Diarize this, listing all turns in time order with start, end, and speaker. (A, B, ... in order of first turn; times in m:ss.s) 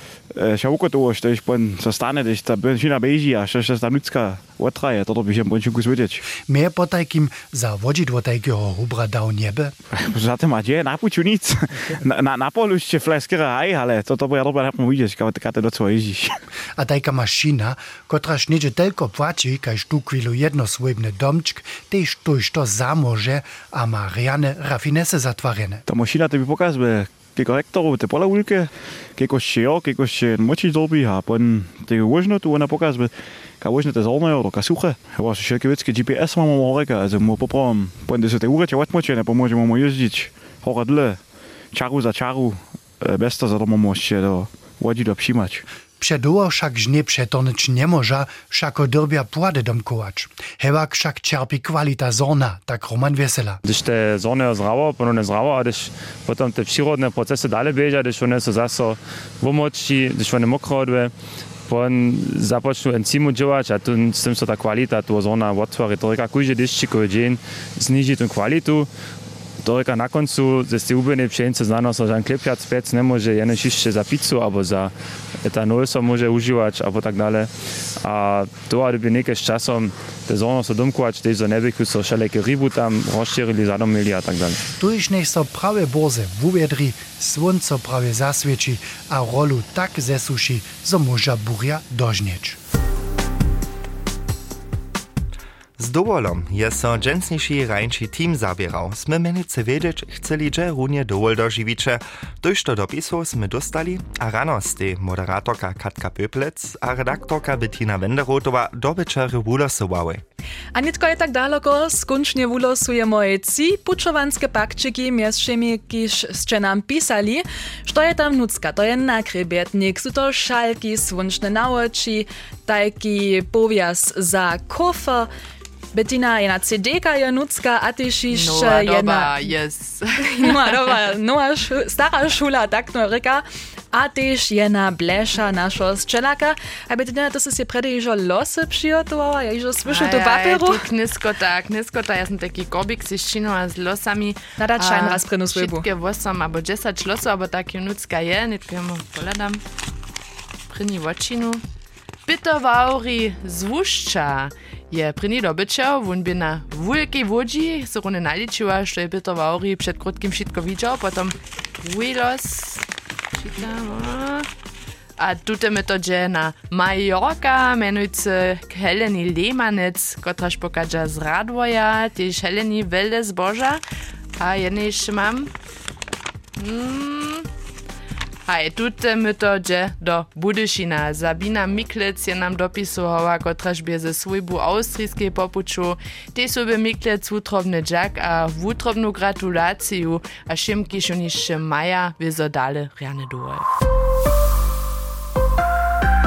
0:00.3-0:06.2 A
0:06.4-0:09.7 B
0:10.0-0:16.4 A
0:16.8-0:25.8 B
0:25.9-0:41.2 A
0:41.7-0:45.6 A
0:46.0-0:53.6 B
0:53.6-1:01.1 C
1:01.7-1:08.9 C
1:09.6-1:14.9 C
1:15.4-1:17.5 C
1:18.0-1:24.6 C
1:24.8-1:32.6 B
1:35.8-1:50.2 D
1:50.7-2:05.3 E
2:05.9-2:09.5 E
2:08.3-2:10.8 F
2:10.3-2:20.9 E
2:19.8-2:29.6 F
2:24.6-2:25.8 E
2:30.7-2:31.6 F
2:32.3-2:42.8 F
2:43.4-2:44.5 F
2:45.2-2:53.8 F
2:54.4-2:55.5 F
2:56.6-2:57.4 F
2:58.5-3:13.6 F